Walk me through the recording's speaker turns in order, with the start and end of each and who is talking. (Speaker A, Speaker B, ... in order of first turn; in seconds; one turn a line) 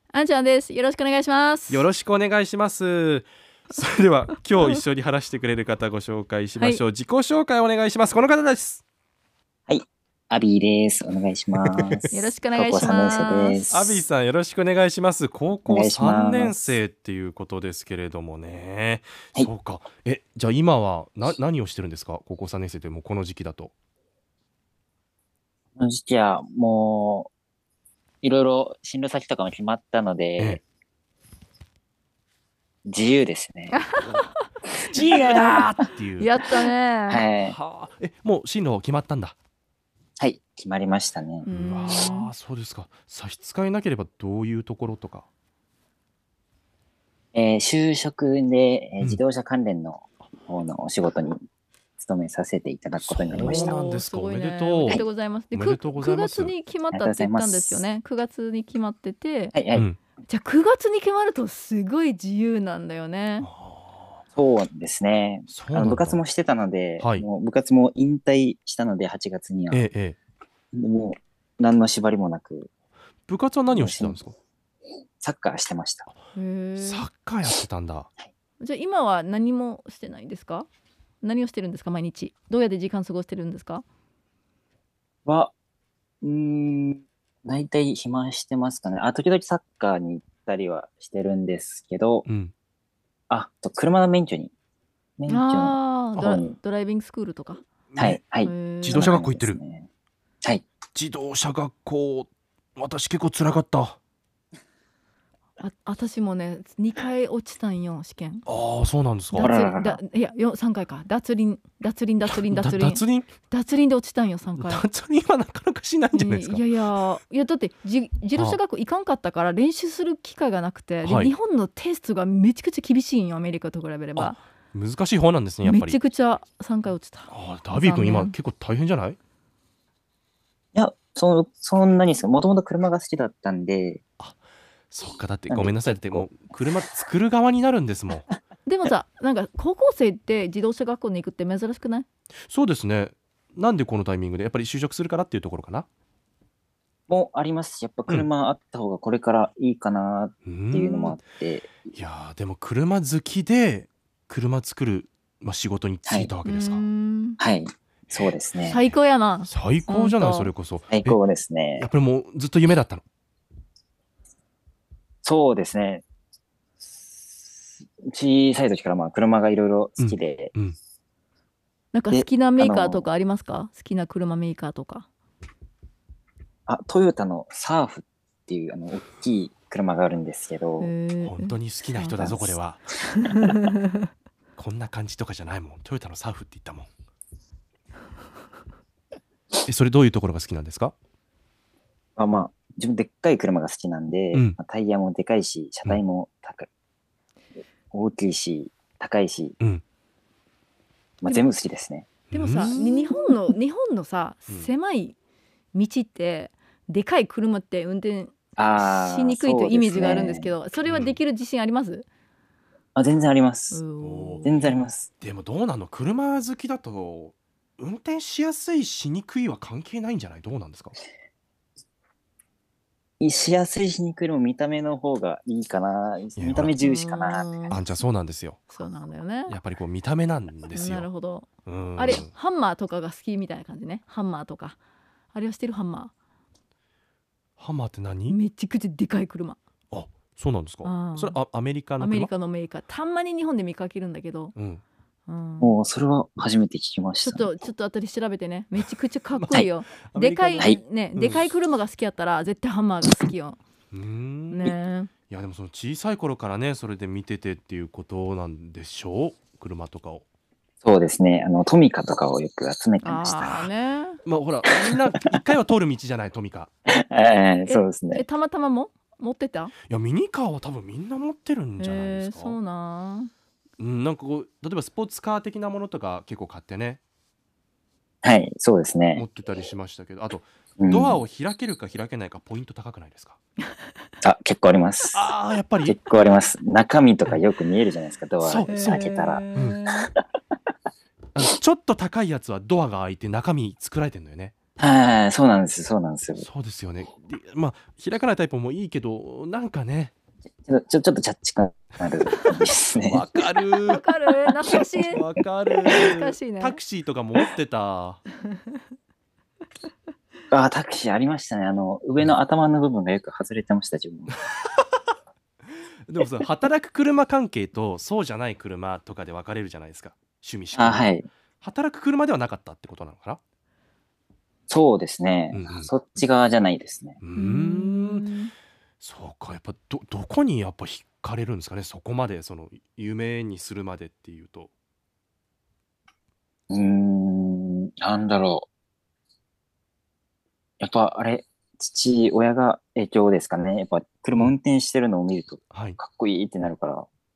Speaker A: 0.1-1.9
Speaker B: 1.7-8.8
Speaker A: 6.6-6.8
Speaker C: 9.7-14.0
Speaker B: 11.6-12.1
Speaker A: 12.1-13.7
Speaker B: 13.7-23.7
Speaker C: 15.7-16.8
Speaker C: 25.8-27.3
Speaker C: 28.2-30.6
Speaker C: 32.9-33.8
Speaker A: 33.7-34.0
Speaker B: 34.0-36.3
Speaker C: 34.7-35.7
Speaker A: 35.1-35.6
Speaker A: 36.2-37.2
Speaker C: 37.1-37.5
Speaker B: 37.4-39.3
Speaker C: 40.2-41.5
Speaker A: 41.4-42.3
Speaker B: 41.5-45.3
Speaker C: 47.3-51.4
Speaker C: 52.0-53.8
Speaker B: 53.0-55.0
Speaker A: 53.4-59.6
Speaker B: 55.5-56.5
Speaker C: 56.9-57.8
Speaker C: 59.5-59.9
Speaker A: 60.3-63.5
Speaker B: 63.4-64.2
Speaker C: 64.4-69.9
Speaker B: 65.5-66.2
Speaker B: 67.0-67.2
Speaker B: 69.7-70.2
Speaker C: 70.7-72.7
Speaker B: 73.3-74.3
Speaker C: 73.7-74.2
Speaker C: 75.2-76.1
Speaker A: 76.3-77.1
Speaker B: 76.8-78.1
Speaker A: 78.6-80.7
Speaker A: 81.2-83.8
Speaker C: 85.2-85.5
Speaker C: 86.2-92.2
Speaker B: 92.2-92.5
Speaker C: 93.3-94.5
Speaker C: 95.2-96.6
Speaker A: 95.3-97.6
Speaker B: 97.9-98.2
Speaker C: 98.0-99.9
Speaker A: 98.4-99.1
Speaker B: 98.8-99.6
Speaker B: 101.0-104.0
Speaker A: 105.6-108.5
Speaker B: 108.5-109.5
Speaker A: 109.3-114.8
Speaker C: 109.4-110.0
Speaker B: 112.3-113.3
Speaker B: 114.6-117.0
Speaker A: 116.1-124.4
Speaker B: 121.0-121.3
Speaker B: 124.2-126.0
Speaker A: 125.6-128.3
Speaker B: 127.3-129.2
Speaker C: 130.8-134.0
Speaker B: 134.9-138.3
Speaker C: 135.5-136.3
Speaker A: 138.7-142.1
Speaker B: 142.5-145.8
Speaker C: 147.1-151.7
Speaker B: 150.4-151.2
Speaker B: 151.9-156.8
Speaker C: 156.1-156.3
Speaker A: 156.5-157.4
Speaker C: 157.4-158.8
Speaker A: 158.7-160.5
Speaker B: 159.5-161.2
Speaker C: 160.9-161.9
Speaker B: 161.8-163.0
Speaker C: 165.2-166.0
Speaker C: 167.2-170.5
Speaker B: 170.0-170.8
Speaker A: 171.9-175.1
Speaker C: 172.1-173.1
Speaker C: 176.7-180.9
Speaker A: 180.8-182.2
Speaker B: 181.2-182.8
Speaker C: 182.1-182.6
Speaker A: 183.1-183.9
Speaker B: 184.6-186.9
Speaker B: 189.6-190.9
Speaker C: 192.2-196.7
Speaker B: 194.3-194.6
Speaker C: 197.9-199.6
Speaker C: 201.2-202.2
Speaker A: 201.2-201.5
Speaker B: 202.3-203.4
Speaker A: 202.3-205.2
Speaker A: 205.7-212.1
Speaker C: 208.6-210.6
Speaker B: 210.8-211.2
Speaker C: 212.9-213.8
Speaker A: 213.7-214.5
Speaker B: 214.0-220.9
Speaker C: 214.4-215.1
Speaker C: 223.2-227.5
Speaker B: 226.4-226.8
Speaker A: 226.8-227.8
Speaker B: 227.7-228.6
Speaker A: 228.7-229.6
Speaker B: 229.5-231.1
Speaker A: 230.7-234.8
Speaker B: 231.7-232.3
Speaker A: 235.3-236.1
Speaker B: 237.6-238.4
Speaker A: 238.3-239.6
Speaker B: 239.9-242.3
Speaker A: 240.8-241.4
Speaker A: 242.0-244.6
Speaker B: 244.6-244.8
Speaker A: 245.3-245.7
Speaker C: 245.6-247.5
Speaker A: 247.2-253.6
Speaker B: 249.3-251.5
Speaker B: 253.9-254.7
Speaker A: 254.5-255.1
Speaker B: 255.3-260.2
Speaker C: 260.8-263.7
Speaker A: 263.0-264.2
Speaker B: 264.2-266.7
Speaker C: 264.8-265.4
Speaker C: 266.9-268.2
Speaker A: 267.7-269.7
Speaker B: 269.9-272.6
Speaker A: 271.8-273.3
Speaker B: 273.8-277.0
Speaker C: 278.2-279.2
Speaker B: 279.1-283.4
Speaker C: 280.8-281.2
Speaker C: 284.2-285.3
Speaker B: 285.1-286.0
Speaker C: 285.8-289.9
Speaker B: 288.4-289.8
Speaker A: 288.7-290.1
Speaker B: 291.4-294.5
Speaker C: 294.8-296.4
Speaker B: 296.4-300.1
Speaker C: 300.7-303.2
Speaker B: 302.9-304.1
Speaker A: 303.8-305.2
Speaker B: 304.7-308.2
Speaker A: 305.9-306.8
Speaker C: 310.5-314.4
Speaker B: 316.1-323.4
Speaker C: 320.7-321.3
Speaker C: 324.7-327.2
Speaker B: 325.5-325.9
Speaker B: 327.2-328.3
Speaker A: 327.4-328.5
Speaker B: 329.0-334.7
Speaker C: 336.7-338.7
Speaker C: 340.8-347.1
Speaker B: 345.7-346.0